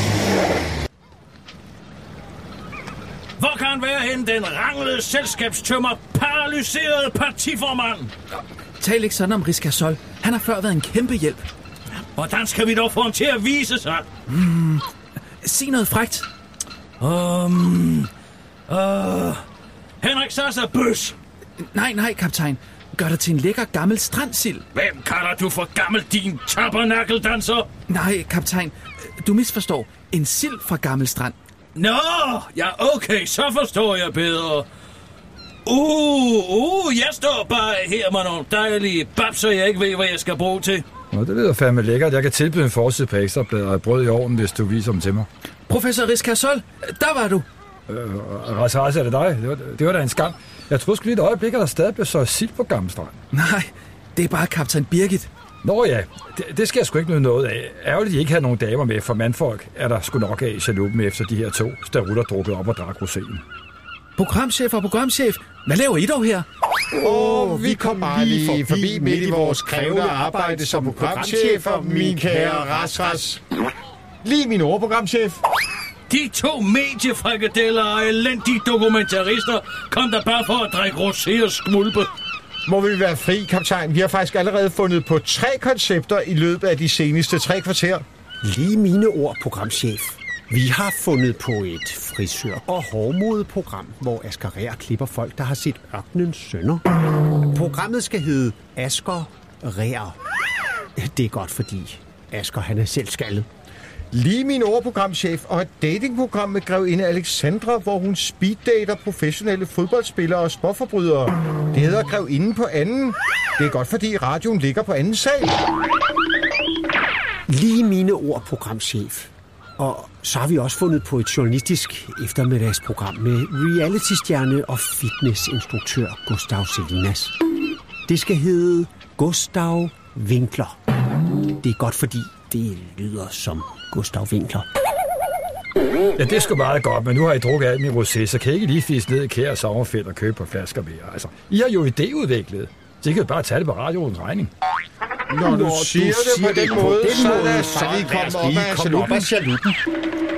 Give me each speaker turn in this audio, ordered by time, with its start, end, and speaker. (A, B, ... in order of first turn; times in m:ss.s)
0:03.4-0:08.1 A
0:08.8-0:11.4 B
0:12.1-0:14.0 A
0:14.3-0:14.8 B
0:15.4-0:16.3 B
0:17.0-0:18.1 A
0:18.7-0:19.4 A
0:20.0-0:21.2 A
0:21.7-0:24.6 B
0:24.7-0:27.7 A
0:27.9-0:31.3 B
0:31.8-0:34.6 A
0:35.6-0:40.8 A
0:41.1-0:45.3 C
0:45.7-0:47.4 B
0:47.9-0:53.2 C
0:53.3-0:55.3 B
0:55.6-1:03.4 C
1:04.2-1:06.4 B
1:07.0-1:13.2 D
1:07.0-1:13.4 E
1:14.2-1:15.4 E
1:16.1-1:22.1 A
1:22.6-1:28.0 E
1:28.4-1:36.8 D
1:37.5-1:40.2 D
1:41.0-1:43.4 D
1:44.1-1:55.6 E
1:57.5-2:07.3 D
2:08.1-2:10.8 D
2:11.5-2:14.6 D
2:16.2-2:24.5 C
2:25.3-2:29.6 E
2:25.3-2:29.6 D